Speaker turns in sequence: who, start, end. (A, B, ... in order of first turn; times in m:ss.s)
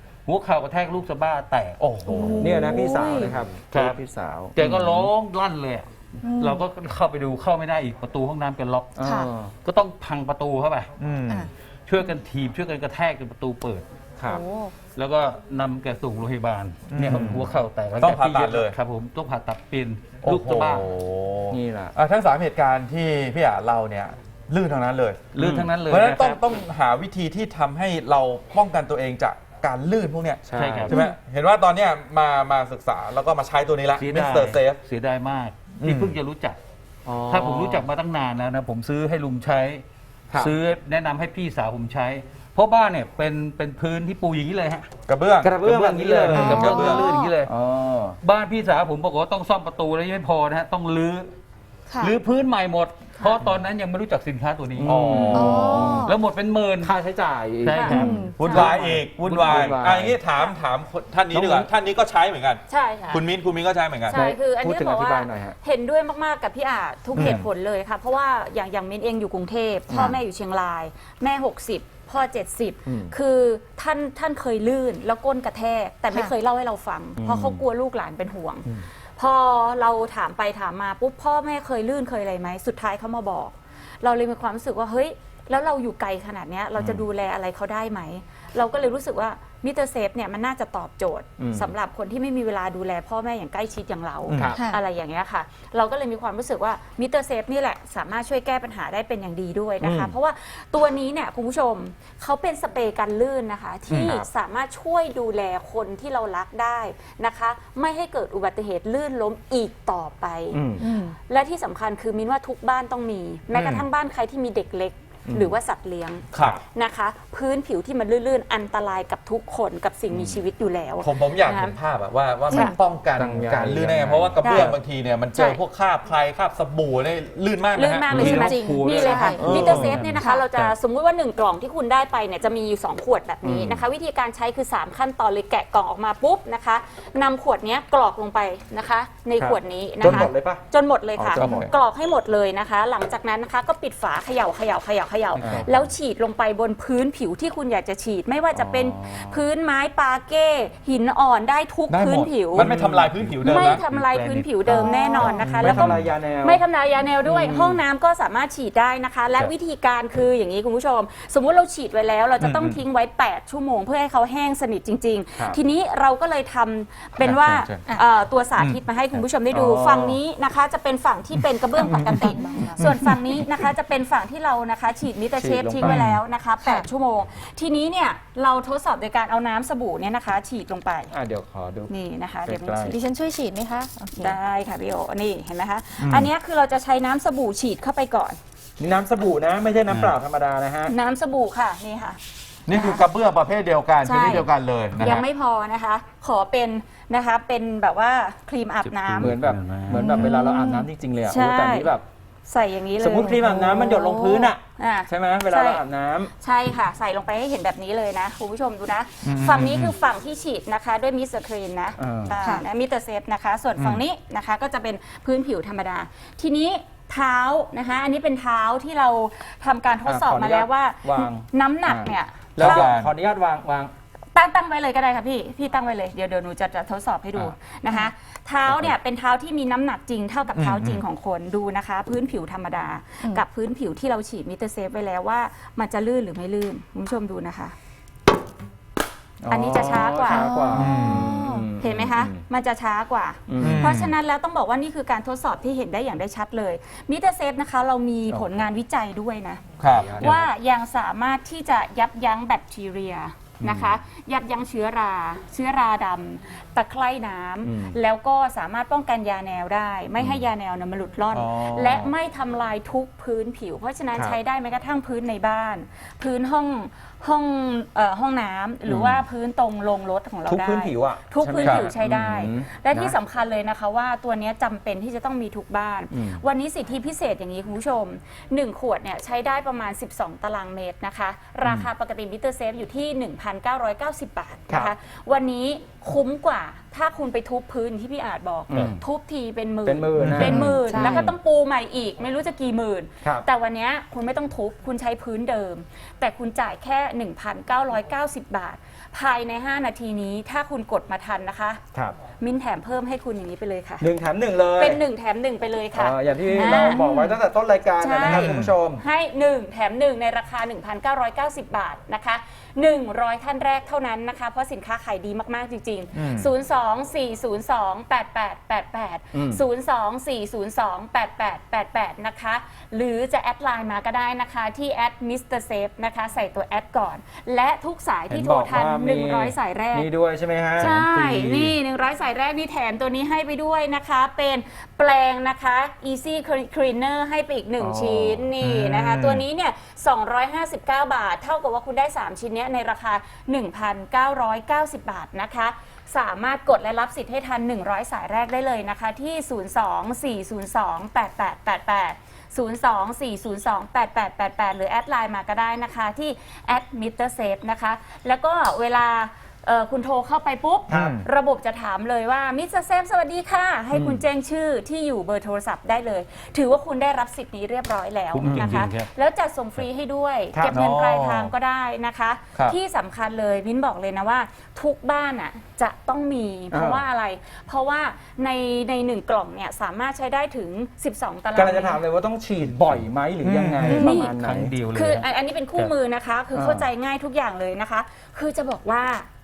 0:00.3-0:01.8 A
0:01.8-0:02.7 B
0:02.0-0:03.3 C
0:02.1-0:05.1 D
0:03.6-0:04.0 A
0:04.6-0:09.0 A
0:06.2-0:06.6 C
0:09.0-0:09.5 D
0:09.0-0:09.3 C
0:09.6-0:10.9 A
0:11.0-0:11.5 B
0:11.9-0:13.9 A
0:14.2-0:14.4 D
0:14.2-0:14.8 C
0:15.0-0:20.9 A
0:16.9-0:17.4 B
0:17.1-0:17.4 D
0:18.0-0:18.8 B
0:20.2-0:25.3 B
0:21.5-0:22.0 D
0:25.3-0:26.5 A
0:25.4-0:25.7 D
0:25.9-0:34.8 B
0:30.4-0:31.0 D
0:30.6-0:31.0 A
0:34.0-0:36.6 A
0:35.8-0:36.2 B
0:37.0-0:37.9 D
0:37.3-0:39.8 A
0:40.3-0:40.6 D
0:40.4-0:44.9 A
0:45.1-0:45.6 B
0:45.4-0:46.9 D
0:45.6-0:47.5 A
0:46.3-0:47.1 B
0:46.3-0:47.3 C
0:47.4-0:48.2 D
0:48.2-0:51.3 A
0:51.9-0:52.2 C
0:52.0-0:56.9 A
0:54.8-0:56.1 D
0:54.8-0:55.8 B
0:55.3-0:56.2 C
0:56.8-1:00.2 D
0:57.6-0:59.8 A
0:57.7-0:58.0 E
0:57.8-0:58.7 C
0:58.4-1:04.2 B
1:01.3-1:01.7 D
1:02.7-1:03.3 E
1:04.1-2:01.8 E
1:04.1-1:05.6 D
1:07.2-1:07.4 B
1:09.9-1:10.2 D
1:12.9-1:13.1 D
1:17.2-1:17.6 D
1:26.8-1:27.0 D
1:31.4-1:31.7 D
1:34.3-1:34.5 B
1:34.3-1:34.6 D
1:34.5-1:34.8 C
1:39.8-1:40.2 D
1:44.0-1:44.3 D
1:50.5-1:50.9 D
1:50.8-1:51.2 C
1:53.5-1:53.9 B
1:55.3-1:55.6 D
1:56.3-1:56.6 B
1:56.4-1:56.6 D
2:01.0-2:08.6 B
2:02.5-2:02.8 C
2:02.5-2:02.8 E
2:03.2-2:04.8 D
2:04.4-2:04.8 E
2:05.3-2:05.6 E
2:07.8-2:32.7 E
2:08.1-2:10.8 A
2:08.2-2:10.4 C
2:09.3-2:10.1 B
2:13.4-2:13.8 D
2:19.4-2:20.6 D
2:20.0-2:20.3 B
2:21.2-2:21.7 D
2:21.4-2:21.7 B
2:25.4-2:25.9 D
2:28.5-2:29.5 D
2:31.9-2:33.8 B
2:32.6-2:34.9 A
2:32.6-2:33.1 D
2:33.4-3:01.1 E
2:34.7-2:36.6 D
2:34.7-2:35.7 C
2:35.4-2:36.0 B
2:37.3-2:37.8 D
2:42.4-2:42.8 B
2:47.2-2:47.9 B
2:49.1-2:50.2 D
2:51.8-2:52.2 B
2:52.8-2:53.1 B
2:55.4-2:56.0 D
2:55.8-2:56.2 B
3:01.1-3:01.9 D
3:01.9-3:03.0 E
3:02.5-3:03.0 D
3:02.9-3:04.4 C
3:04.2-3:08.4 E
3:06.0-3:06.3 B
3:08.8-3:10.9 D
3:09.9-3:10.2 B
3:10.9-3:12.2 E
3:12.7-3:15.2 B
3:12.7-3:13.1 E
3:14.0-3:19.4 E
3:18.8-3:20.3 A
3:19.2-3:22.0 D
3:19.9-3:20.9 C
3:21.2-3:23.9 E
3:23.0-3:26.3 D
3:23.3-3:24.5 C
3:24.8-3:25.8 E
3:26.4-3:42.9 E
3:29.2-3:29.9 B
3:32.0-3:32.4 D
3:33.8-3:34.0 B
3:40.0-3:43.9 D
3:42.6-3:43.2 B
3:44.3-3:57.8 E
3:48.7-3:48.9 D
3:50.6-3:51.0 B
3:59.4-4:02.4 D
3:59.5-4:00.7 E
3:59.8-4:01.7 C
4:00.7-4:01.3 B
4:01.8-4:09.6 E
4:03.5-4:04.0 D
4:03.6-4:04.1 B
4:08.3-4:08.7 D
4:09.8-4:10.2 B
4:09.8-4:10.5 D
4:10.2-5:01.8 E
4:13.6-4:14.0 D
4:17.6-4:18.0 D
4:21.3-4:22.1 B
4:28.9-4:29.2 D
4:30.5-4:33.2 D
4:31.6-4:31.9 B
4:36.1-4:36.4 D
4:41.6-4:41.9 D
4:48.7-4:49.0 D
4:49.9-4:51.4 D
4:50.2-4:50.7 B
4:50.4-4:51.3 C
5:02.4-5:04.1 E
5:04.0-5:05.0 D
5:04.8-5:07.4 E
5:05.9-5:09.0 D
5:08.0-5:30.1 E
5:08.2-5:08.7 B
5:16.1-5:16.5 B
5:19.3-5:19.6 D
5:28.3-5:31.6 D
5:30.8-6:22.0 E
5:30.8-5:31.0 B
5:37.8-5:38.5 D
5:38.6-5:39.4 B
6:00.9-6:01.2 D
6:00.9-6:01.3 B
6:03.9-6:04.2 D
6:08.3-6:09.1 A
6:10.5-6:10.8 D
6:10.7-6:11.5 B
6:16.7-6:17.0 D
6:21.5-6:24.8 D
6:23.4-6:24.0 B
6:23.8-6:25.9 A
6:23.9-6:24.4 E
6:24.9-6:29.3 E
6:26.5-6:26.9 D